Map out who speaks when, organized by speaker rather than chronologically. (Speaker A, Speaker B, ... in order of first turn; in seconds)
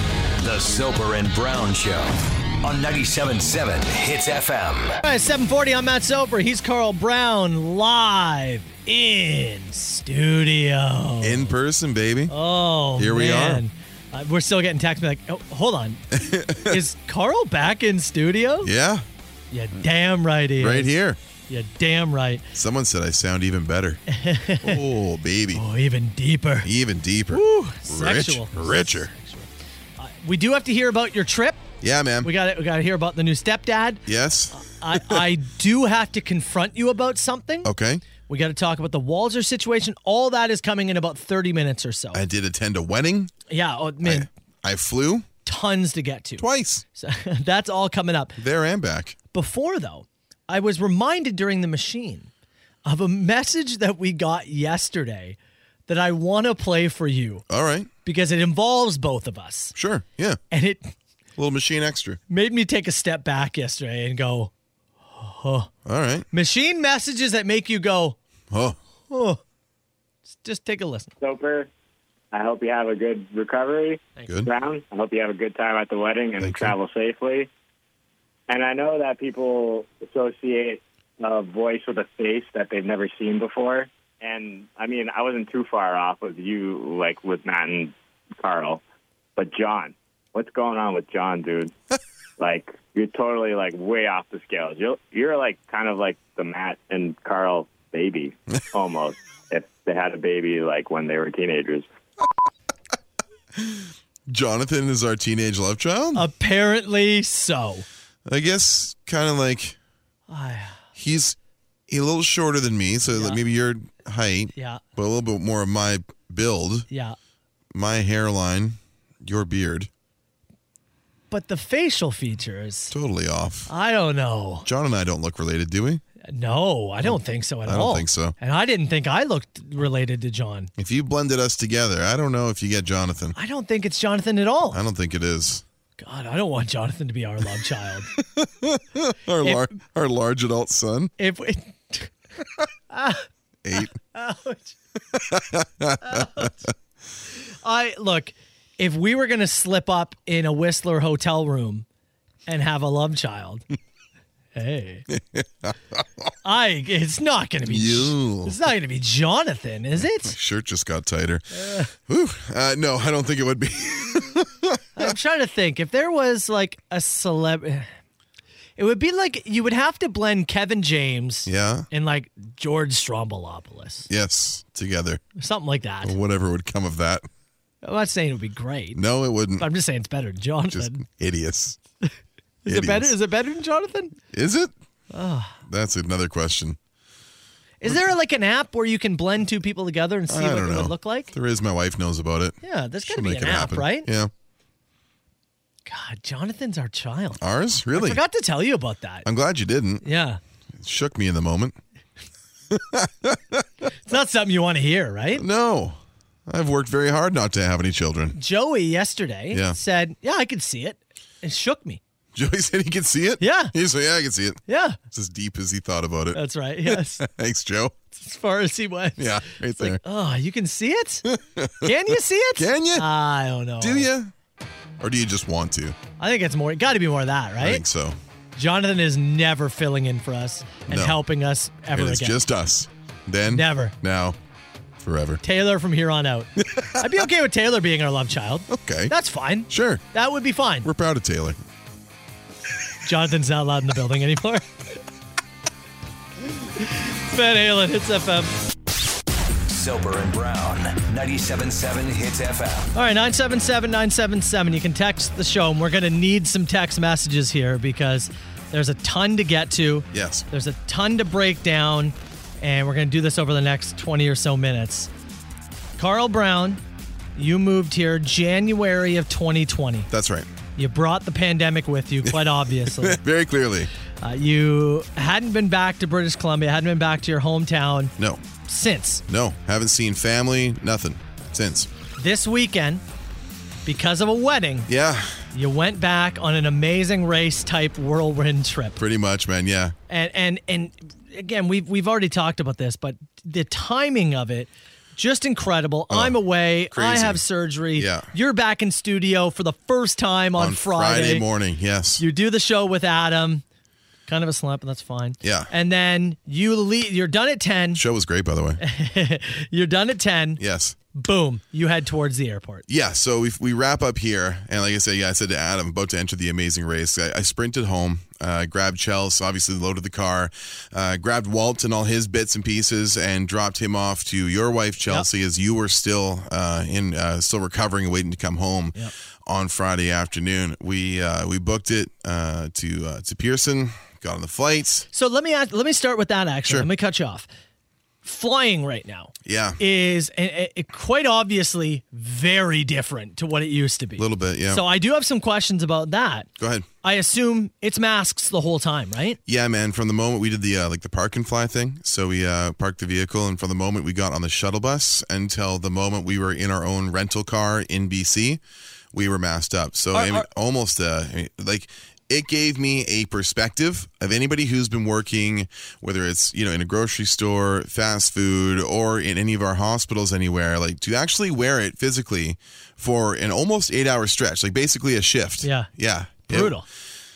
Speaker A: 0.4-5.0, 249.7-252.9
Speaker B: 5.0-11.5, 12.3-16.0, 16.6-18.7, 19.5-20.9, 21.5-22.4, 24.1-24.8, 25.5-26.7, 27.3-31.6, 32.2-34.0, 34.6-42.2, 43.5-44.3, 45.4-46.5, 47.0-48.4, 49.3-52.3, 52.8-55.4, 55.9-57.4, 58.0-59.7, 60.5-60.9, 62.3-64.5, 65.1-65.7, 66.3-68.2, 69.1-69.4, 70.3-71.1, 106.1-107.8, 110.3-110.8, 113.1-113.4, 114.5-114.8, 116.9-117.2, 121.3-122.9, 123.7-124.7, 126.3-130.7, 133.3-134.8, 136.0-138.1, 139.4-139.7, 141.2-142.1, 142.9-144.8, 146.0-146.6, 147.6-151.8, 152.5-153.7, 154.5-155.1, 156.4-160.3, 161.5-161.9, 164.9-167.9, 168.8-174.1, 175.4-176.1, 177.8-179.0, 179.6-181.0, 182.6-184.2, 185.1-185.6, 187.8-191.3, 192.6-194.1, 195.8-197.4, 197.9-199.2, 200.0-200.4, 204.1-205.4, 208.3-212.0, 213.4-213.7, 214.7-215.0, 216.3-217.2, 218.1-221.2, 221.8-224.1, 226.2-227.8, 228.5-232.4, 233.5-233.9, 235.4-240.9, 243.0-244.7, 246.8-248.5, 252.9-265.1, 266.0-266.8, 267.4-270.1, 270.8-273.2, 274.2-278.1, 278.7-279.2, 282.2-283.0, 283.9-284.9, 285.5-289.0, 290.1-301.4, 302.2-303.6, 304.3-308.0, 308.8-310.6, 311.1-312.8, 335.1-337.5, 338.2-346.5, 347.0-349.4, 360.1-360.4, 375.6-375.9, 376.5-376.8
Speaker C: 11.2-12.3, 13.0-13.6, 16.1-16.8, 18.6-19.1, 20.6-21.2, 22.5-24.0, 24.6-25.6, 26.6-29.1, 31.8-32.3, 34.1-35.3, 37.6-38.0, 42.1-43.3, 44.0-45.3, 46.4-46.8, 48.4-49.1, 57.5-57.9, 59.7-60.4, 61.4-62.2, 65.8-66.3, 68.5-68.8, 76.4-76.8, 103.5-106.3, 108.2-109.8, 111.0-111.4, 111.9-116.9, 117.7-119.9, 122.9-123.7, 124.6-126.0, 127.0-128.3, 130.8-133.3, 134.7-135.6, 138.2-141.1, 143.6-143.9, 145.1-146.5, 155.1-156.3, 157.7-158.6, 160.0-165.1, 171.4-171.9, 174.1-175.2, 176.0-177.3, 178.9-179.7, 180.7-181.8, 182.7-183.1, 184.3-184.7, 185.7-186.8, 190.3-194.3, 197.4-198.2, 199.2-200.0, 200.8-201.8, 202.7-203.9, 205.3-208.4, 209.5-209.8, 212.3-217.9, 219.2-220.0, 221.2-223.1, 223.8-224.3, 225.0-226.0, 227.6-228.2, 230.9-231.2, 231.9-234.4, 235.0-235.4, 236.6-237.2, 238.7-239.1, 239.7-240.0, 240.8-241.6, 260.1-260.4, 270.1-270.5, 272.2-273.9, 278.2-278.4, 279.3-281.9, 284.9-285.4, 289.0-289.9, 296.1-296.4, 296.9-297.4, 297.9-298.3, 300.6-302.2, 305.4-305.7, 307.9-308.8, 310.6-310.9, 312.9-335.1, 339.4-339.8, 344.2-344.8, 346.6-346.9, 349.5-358.6, 359.1-376.8
Speaker D: 71.2-71.7, 72.3-77.5, 78.5-88.8, 89.3-91.7, 92.4-101.9